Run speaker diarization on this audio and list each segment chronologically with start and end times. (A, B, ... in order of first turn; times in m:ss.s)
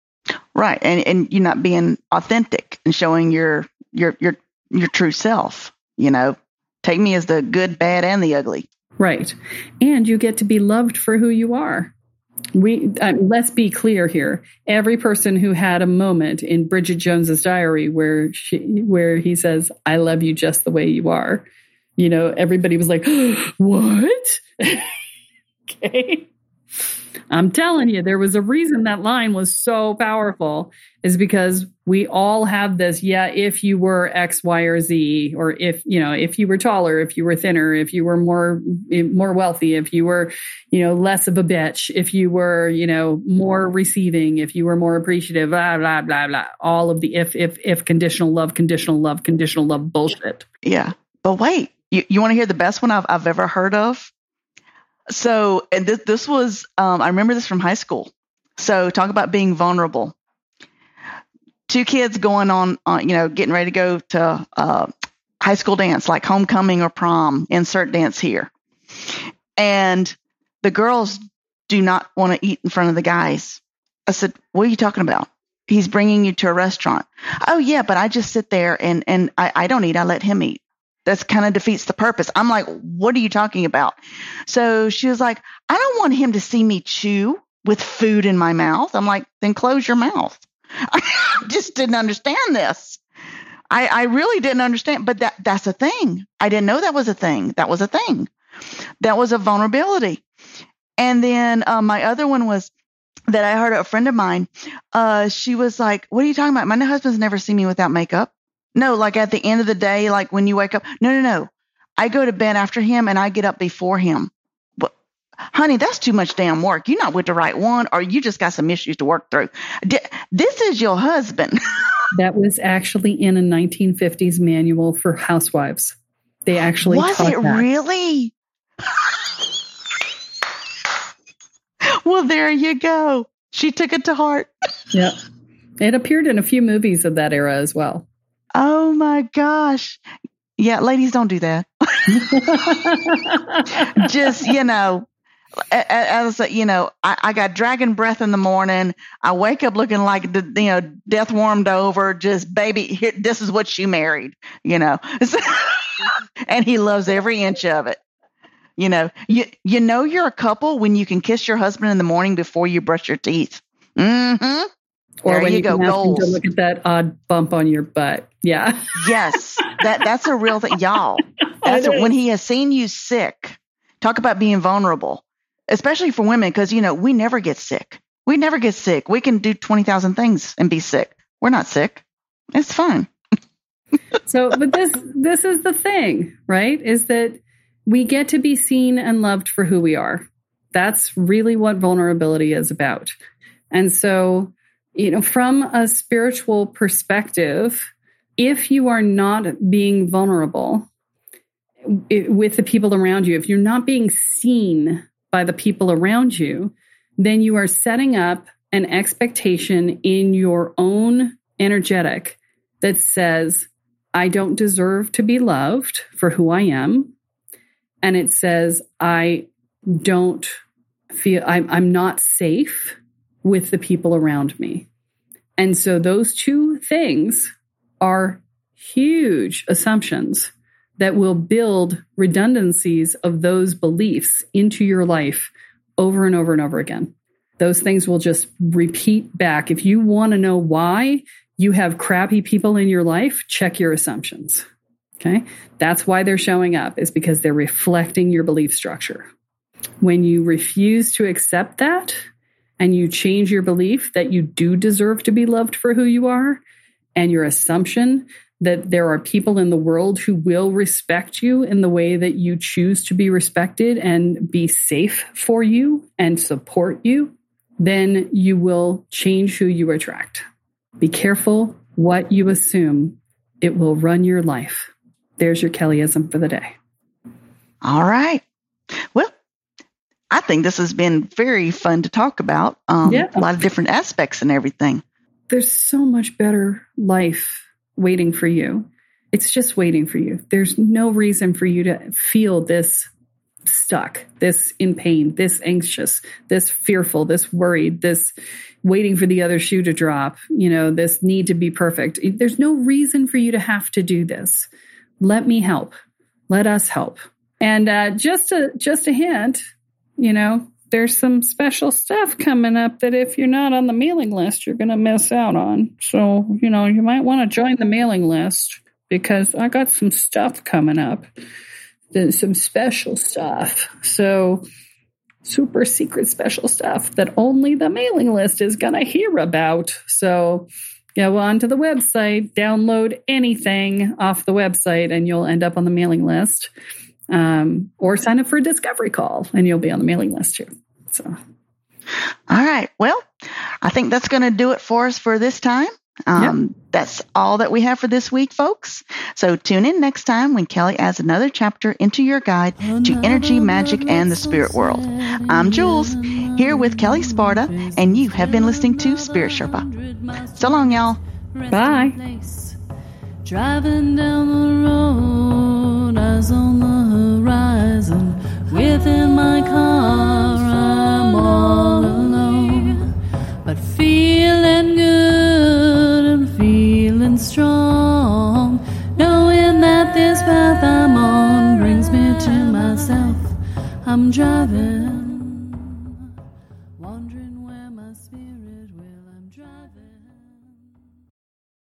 0:00.5-0:08.7 A
0:09.0-0:11.9 B
0:12.5-0:24.9 B
0:25.7-0:26.3 B
0:27.3-0:50.4 B
0:50.6-0:54.1 A
0:55.1-1:00.1 A
1:01.7-1:04.9 A
1:05.4-1:08.5 A
1:09.1-1:33.0 A
1:33.7-1:38.3 A
1:39.0-1:40.2 A
1:41.0-1:42.7 A
1:43.3-1:54.9 A
1:55.5-2:01.6 A
2:02.1-2:07.6 B
2:06.8-2:08.3 A
2:12.0-2:14.5 A
2:15.8-2:18.0 B
2:18.5-2:20.0 A
2:20.6-2:22.8 A
2:22.1-2:24.0 B
2:23.8-2:25.0 A
2:25.7-2:38.0 A
2:38.8-2:44.7 A
2:45.2-2:48.9 B
2:45.3-2:46.4 A
2:49.0-3:02.0 A
2:51.6-2:52.1 B
3:02.5-3:03.1 A
3:04.3-3:13.1 B
3:13.7-3:20.9 B
3:21.8-3:37.1 B
3:38.0-3:40.6 B
3:41.1-3:44.9 B
3:45.6-4:04.6 B
4:05.2-4:09.3 B
4:10.0-4:12.2 B
4:12.8-4:16.6 B
4:17.2-4:30.4 B
4:31.0-4:36.7 B
4:37.8-4:38.4 A
4:40.3-4:45.0 A
4:43.0-4:43.5 B
4:45.5-4:53.1 B
4:53.6-4:58.3 B
4:58.8-5:04.7 B
5:05.2-5:05.9 B
5:06.5-5:09.6 B
5:10.2-5:21.3 B
5:22.1-5:24.6 B
5:25.4-5:36.7 B
5:37.3-5:41.4 B
5:42.5-5:43.2 A
5:43.8-5:59.8 A
5:52.8-6:02.8 C
6:00.6-6:01.2 A
6:01.7-6:02.2 B
6:03.4-6:26.2 C
6:27.0-6:30.6 C